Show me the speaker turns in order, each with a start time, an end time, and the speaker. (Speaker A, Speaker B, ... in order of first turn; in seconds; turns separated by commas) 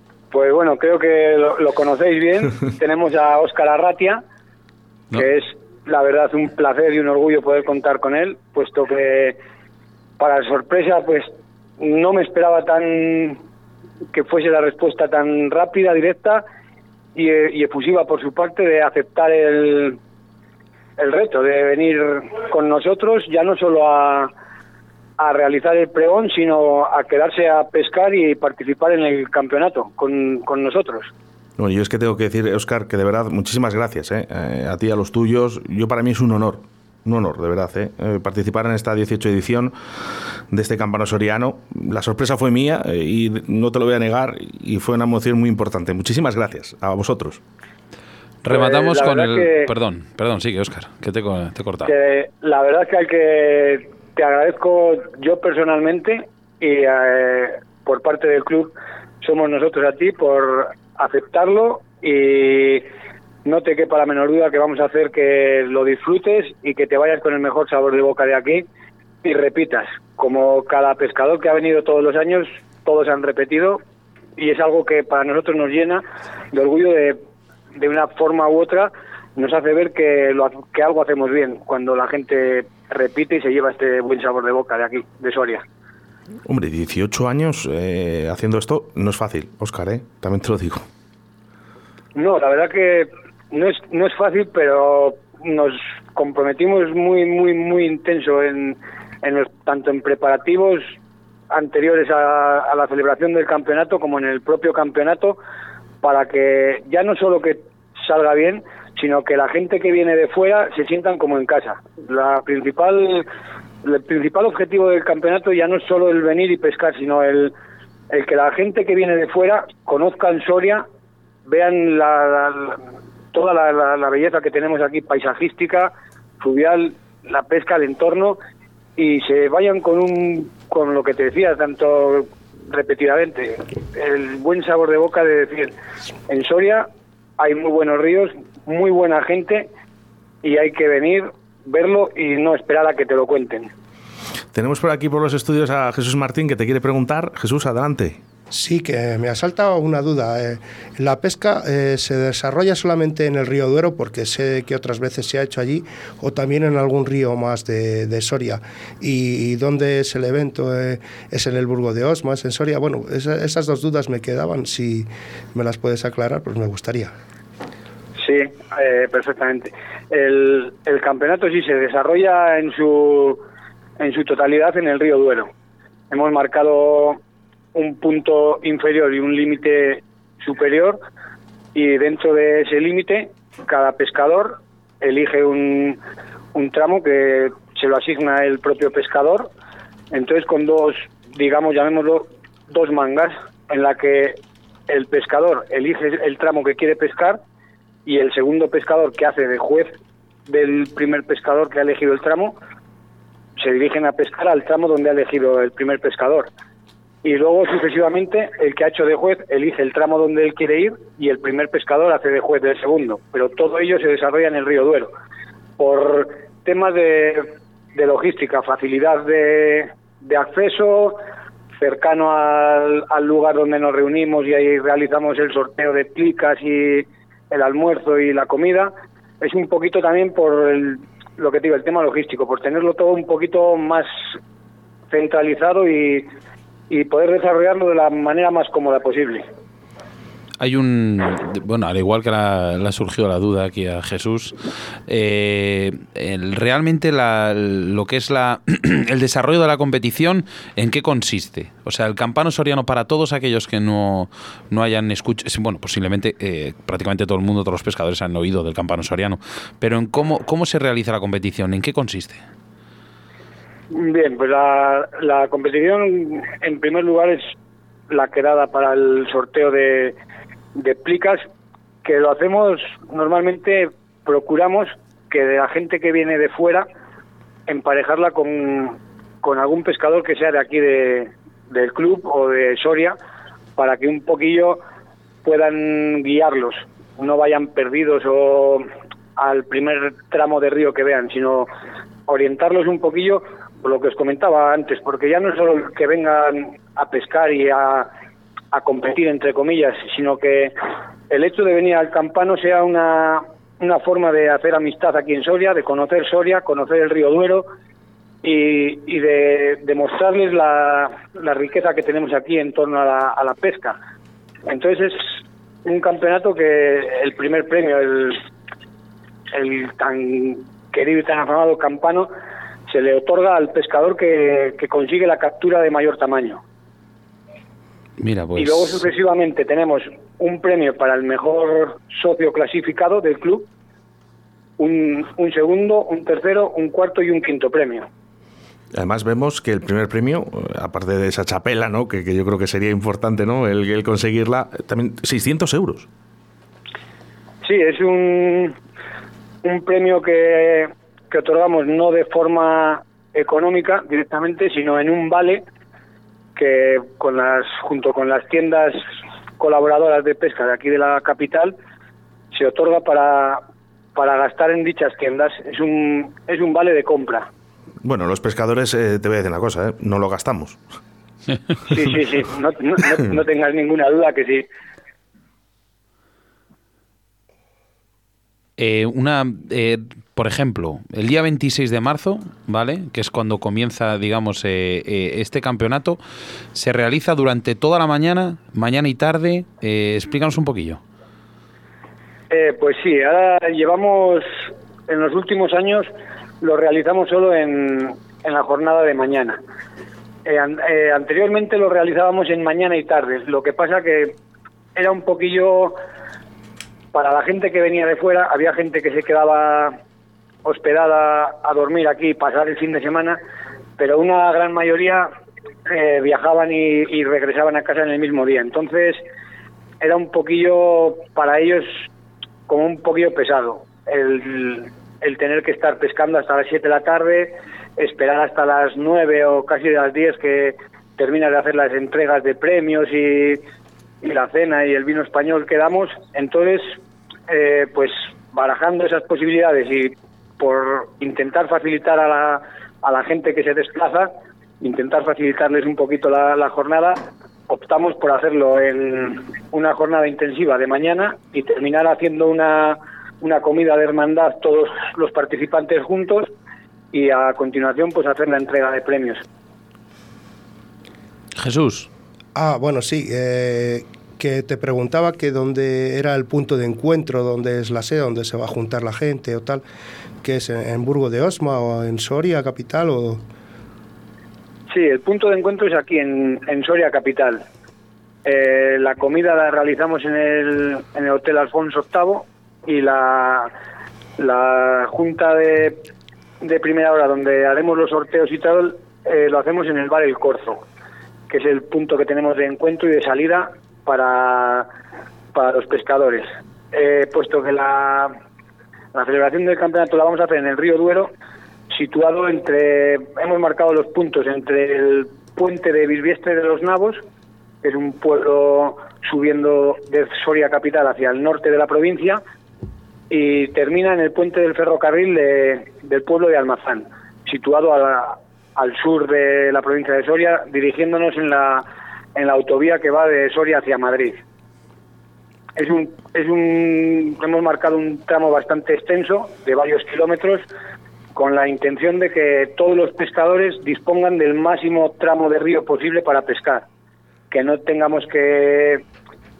Speaker A: 0.3-4.2, Speaker A: 5.1-9.4, Speaker A: 10.2-13.4, Speaker A: 14.1-16.4, Speaker A: 17.1-20.0, Speaker A: 21.0-24.3, Speaker A: 25.2-31.1, Speaker B: 31.6-39.8, Speaker B: 40.5-47.4, Speaker C: 48.4-51.9, Speaker A: 48.5-49.7, Speaker A: 51.8-62.8, Speaker A: 63.4-68.7, Speaker A: 69.2-73.8, Speaker A: 74.4-77.2, Speaker A: 77.7-85.6, Speaker B: 86.5-90.8, Speaker A: 92.1-100.9, Speaker A: 101.5-105.4, Speaker A: 106.0-113.3, Speaker A: 113.8-117.5, Speaker A: 118.1-120.8, Speaker A: 121.4-122.8, Speaker A: 123.3-128.4, Speaker A: 129.0-135.7, Speaker A: 136.3-136.8, Speaker A: 137.4-139.7, Speaker A: 140.4-143.7, Speaker B: 144.5-148.2, Speaker D: 148.5-167.1, Speaker A: 168.2-173.4, Speaker A: 174.0-175.5, Speaker A: 176.1-177.2, Speaker A: 177.7-181.0, Speaker A: 181.7-186.0, Speaker A: 186.5-189.5, Speaker A: 190.1-194.4, Speaker A: 194.9-197.4, Speaker A: 198.0-199.9, Speaker A: 200.5-202.6, Speaker A: 203.6-206.5, Speaker A: 207.2-215.1, Speaker A: 215.8-221.2, Speaker A: 221.8-234.2, Speaker A: 235.1-236.3, Speaker A: 236.9-239.4, Speaker C: 240.6-244.6, Speaker C: 245.1-262.4, Speaker A: 263.9-267.4, Speaker A: 268.1-270.1, Speaker A: 270.8-271.4, Speaker A: 272.0-276.9, Speaker A: 277.7-283.2, Speaker A: 283.8-284.8, Speaker A: 285.4-288.9, Speaker A: 289.4-291.7, Speaker A: 292.3-298.1, Speaker A: 298.7-300.7, Speaker A: 301.3-307.6, Speaker A: 308.4-314.0, Speaker A: 314.7-318.4, Speaker A: 319.5-322.3, Speaker A: 322.9-326.6, Speaker C: 328.2-329.0, Speaker A: 328.6-333.7, Speaker A: 334.8-338.1, Speaker B: 338.9-346.1, Speaker A: 347.6-348.8, Speaker A: 349.6-355.6, Speaker A: 356.6-359.0, Speaker A: 359.6-361.7, Speaker A: 362.5-363.6, Speaker A: 364.1-367.5, Speaker B: 368.0-370.8, Speaker A: 371.9-374.6, Speaker C: 378.8-386.2, Speaker C: 386.7-391.0, Speaker A: 392.5-396.1, Speaker A: 396.6-399.6, Speaker A: 400.4-404.4, Speaker A: 404.9-405.9, Speaker A: 407.1-409.9, Speaker A: 410.6-413.4, Speaker A: 414.0-415.3, Speaker A: 415.9-419.2, Speaker A: 420.0-422.0, Speaker A: 422.7-433.6, Speaker A: 434.2-456.5, Speaker A: 457.1-459.4, Speaker C: 461.6-462.1, Speaker D: 462.5-469.8, Speaker D: 470.4-473.4, Speaker A: 474.9-477.6, Speaker A: 478.4-483.7, Speaker A: 484.4-486.0, Speaker A: 486.6-490.8, Speaker A: 491.5-494.9, Speaker A: 495.5-498.3, Speaker A: 499.1-501.3, Speaker A: 501.9-507.2, Speaker A: 507.8-512.4, Speaker A: 513.3-521.8, Speaker A: 522.4-524.4, Speaker A: 525.8-530.7, Speaker A: 531.3-536.9, Speaker A: 537.5-539.0